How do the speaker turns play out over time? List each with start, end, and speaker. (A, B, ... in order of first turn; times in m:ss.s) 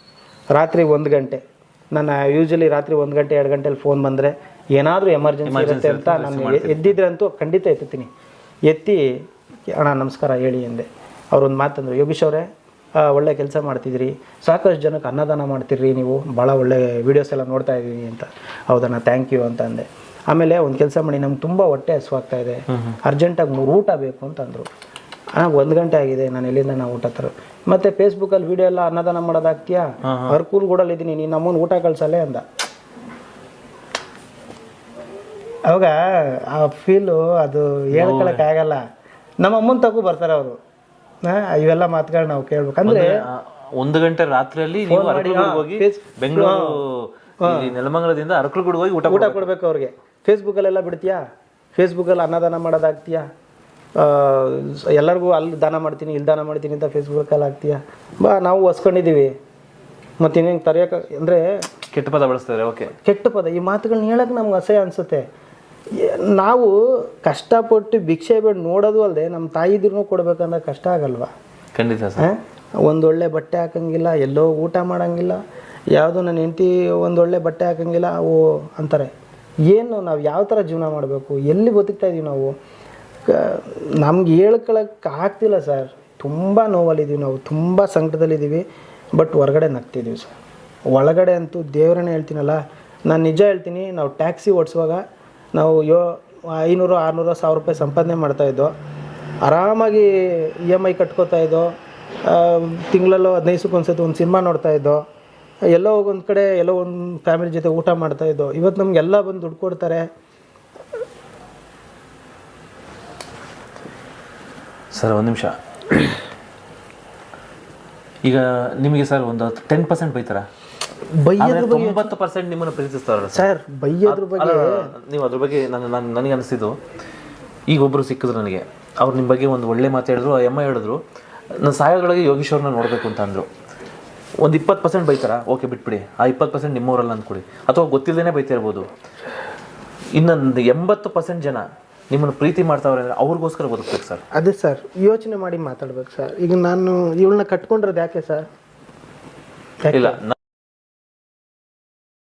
0:00.5-0:01.4 A
0:01.9-0:08.1 A
0:05.4-0:07.0 B
0:08.7-0:12.5 A
0:13.0-0:24.7 A
0:22.7-0:23.0 B
0:25.4-0:32.4 A
0:30.0-0:30.4 B
0:35.6-0:38.8 A
0:37.9-0:38.4 B
0:39.4-0:40.6 A
0:41.2-0:43.2 A
0:42.8-0:49.5 B
0:44.9-0:46.8 A
0:47.4-0:47.7 A
0:49.1-0:51.2 A
0:51.8-0:53.2 A
0:54.0-0:59.3 A
1:00.2-1:01.6 A
1:01.9-1:02.9 B
1:03.0-1:05.2 A
1:05.9-1:11.3 A
1:11.7-1:12.3 B
1:12.2-1:15.4 A
1:15.9-1:19.1 A
1:19.7-1:22.5 A
1:23.3-1:28.6 A
1:29.2-1:30.4 A
1:30.9-1:35.0 A
1:35.5-1:38.7 A
1:39.4-1:41.7 A
1:42.2-1:45.0 A
1:45.7-1:50.0 A
1:54.9-1:56.2 B
1:58.2-2:00.5 B
2:01.2-2:02.1 A
2:01.4-2:03.5 B
2:03.3-2:04.9 A
2:04.0-2:06.7 B
2:07.7-2:11.0 B
2:11.6-2:13.5 B
2:14.4-2:18.9 B
2:20.1-2:24.2 B
2:24.3-2:28.4 A
2:29.8-2:30.2 A
2:29.9-2:30.3 B